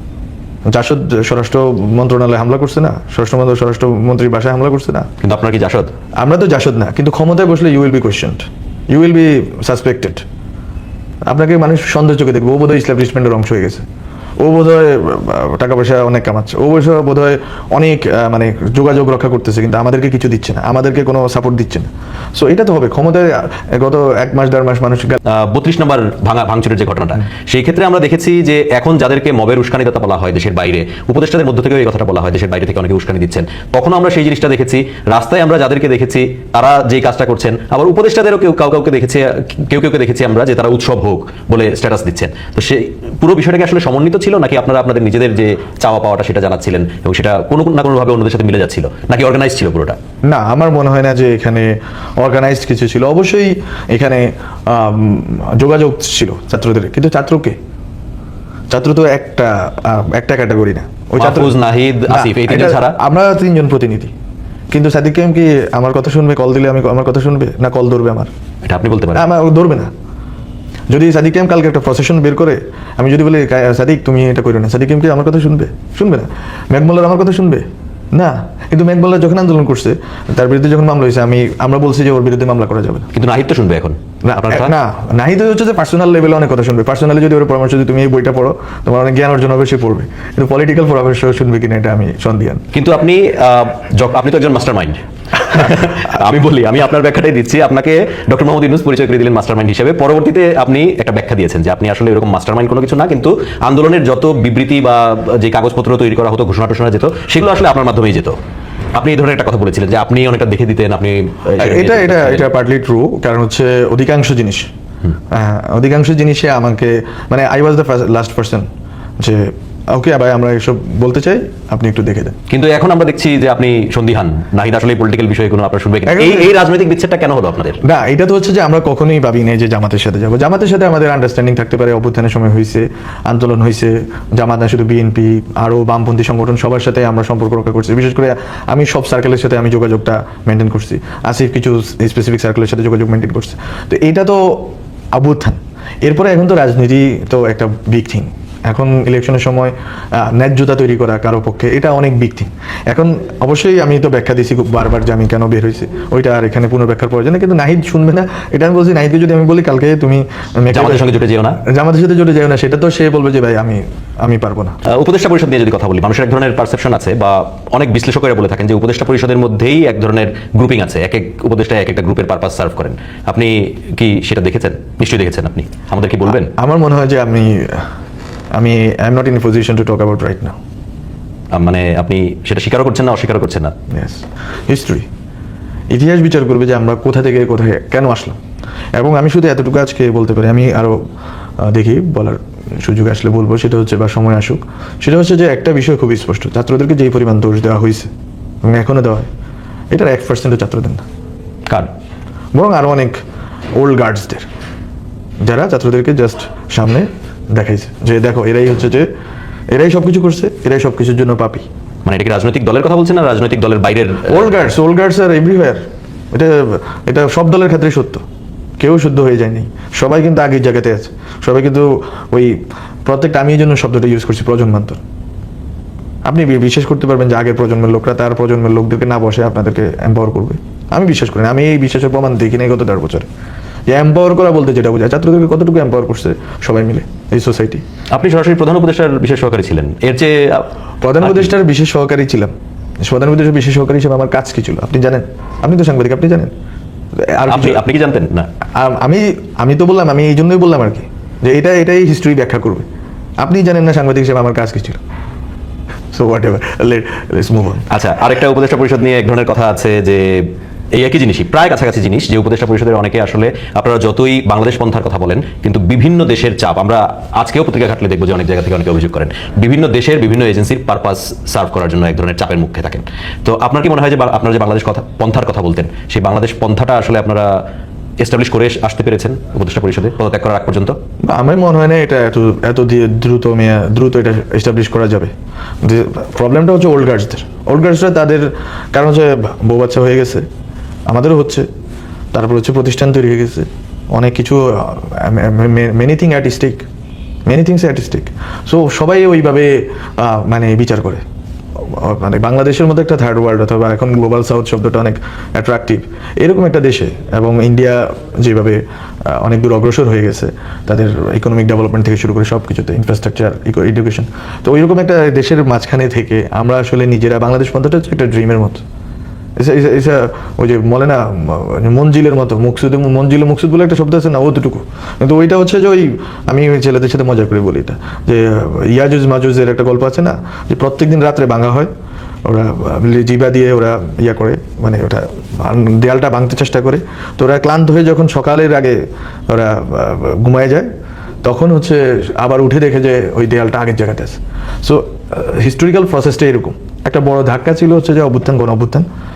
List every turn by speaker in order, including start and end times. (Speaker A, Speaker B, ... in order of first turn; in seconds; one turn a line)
Speaker A: 0.7-5.1
Speaker B: 5.2-5.9
Speaker A: 6.2-10.2
Speaker A: 11.3-13.8
Speaker A: 14.4-25.2
Speaker B: 25.2-50.0
Speaker A: 50.3-57.6
Speaker A: 58.7-64.1
Speaker B: 61.2-63.0
Speaker A: 64.7-68.3
Speaker B: 68.6-69.2
Speaker A: 69.1-69.9
Speaker A: 70.9-83.1
Speaker B: 83.1-84.7
Speaker A: 84.2-92.6
Speaker B: 92.7-108.3
Speaker B: 108.9-112.5
Speaker A: 111.6-114.7
Speaker A: 115.3-118.7
Speaker A: 119.2-122.3
Speaker B: 122.5-127.8
Speaker A: 126.0-126.6
Speaker A: 127.8-164.8
Speaker B: 160.7-161.6
Speaker B: 164.8-176.5
Speaker A: 176.4-177.8
Speaker A: 178.5-180.6
Speaker B: 181.5-183.7
Speaker A: 183.9-185.1
Speaker A: 185.9-188.4
Speaker A: 188.9-191.0
Speaker A: 191.6-198.1
Speaker A: 198.6-199.3
Speaker A: 199.9-201.0
Speaker A: 202.5-203.2
Speaker A: 203.8-204.5
Speaker A: 205.4-209.1
Speaker A: 209.7-211.7
Speaker B: 212.1-214.4
Speaker A: 214.3-218.2
Speaker A: 218.8-225.0
Speaker A: 226.2-233.3
Speaker A: 233.9-237.8
Speaker B: 238.1-240.7
Speaker A: 241.0-242.5
Speaker B: 241.2-241.5
Speaker A: 243.0-246.5
Speaker A: 247.2-247.8
Speaker B: 247.5-248.5
Speaker A: 248.7-252.8
Speaker A: 253.4-255.0
Speaker A: 256.1-257.8
Speaker B: 257.9-277.6
Speaker B: 278.2-281.0
Speaker A: 281.2-285.3
Speaker A: 285.8-290.4
Speaker A: 291.1-291.6
Speaker A: 292.3-296.8
Speaker A: 297.5-301.2
Speaker A: 301.8-318.8
Speaker A: 319.6-331.9
Speaker A: 332.4-340.9
Speaker A: 341.4-349.1